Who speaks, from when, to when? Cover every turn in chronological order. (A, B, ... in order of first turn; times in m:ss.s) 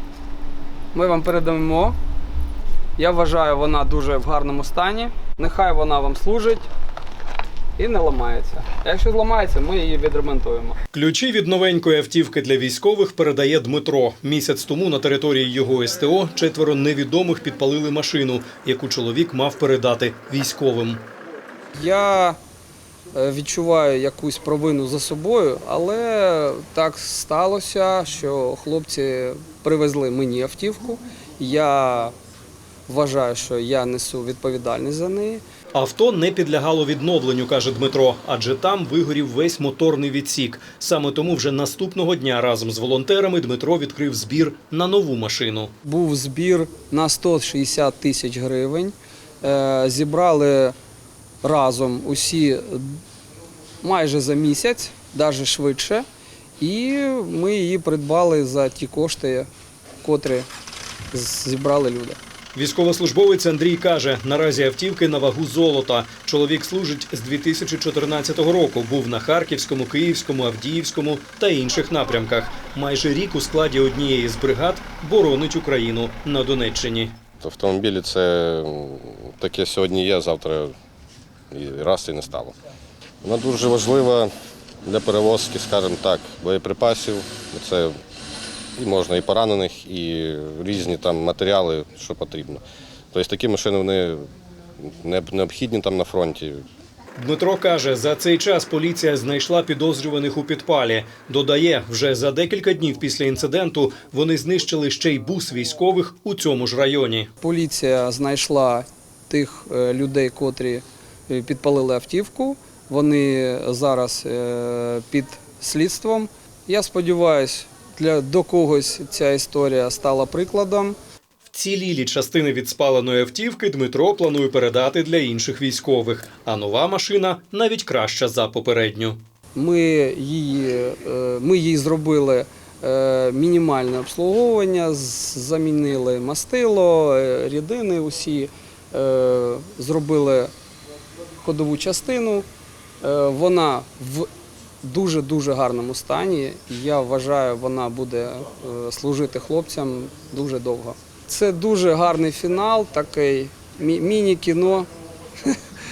0:00.9-0:02.0 A
0:03.0-0:06.7 A
0:07.8-0:10.8 A
0:10.9-0:21.0 B
0:21.7-0:22.4 A
0:23.1-0:32.1 A
0:32.9-0:35.4 A
0:35.7-0:45.7 B
0:45.8-0:50.8 A
0:51.4-0:53.0 A
0:53.8-0:56.0 A
0:56.6-0:59.5 A
1:00.0-1:00.5 A
1:01.1-1:02.2 A
1:02.5-1:17.1 B
1:17.4-1:20.7 C
1:21.5-1:22.6 C
1:23.2-1:24.3 C
1:24.8-1:28.0 C
1:28.8-1:34.3 C
1:34.8-1:36.6 C
1:37.2-1:47.3 B
1:47.4-2:01.0 A
2:01.5-2:09.2 B
2:09.5-2:20.5 A
2:21.4-2:22.4 A
2:23.0-2:24.3 A
2:24.8-2:34.9 A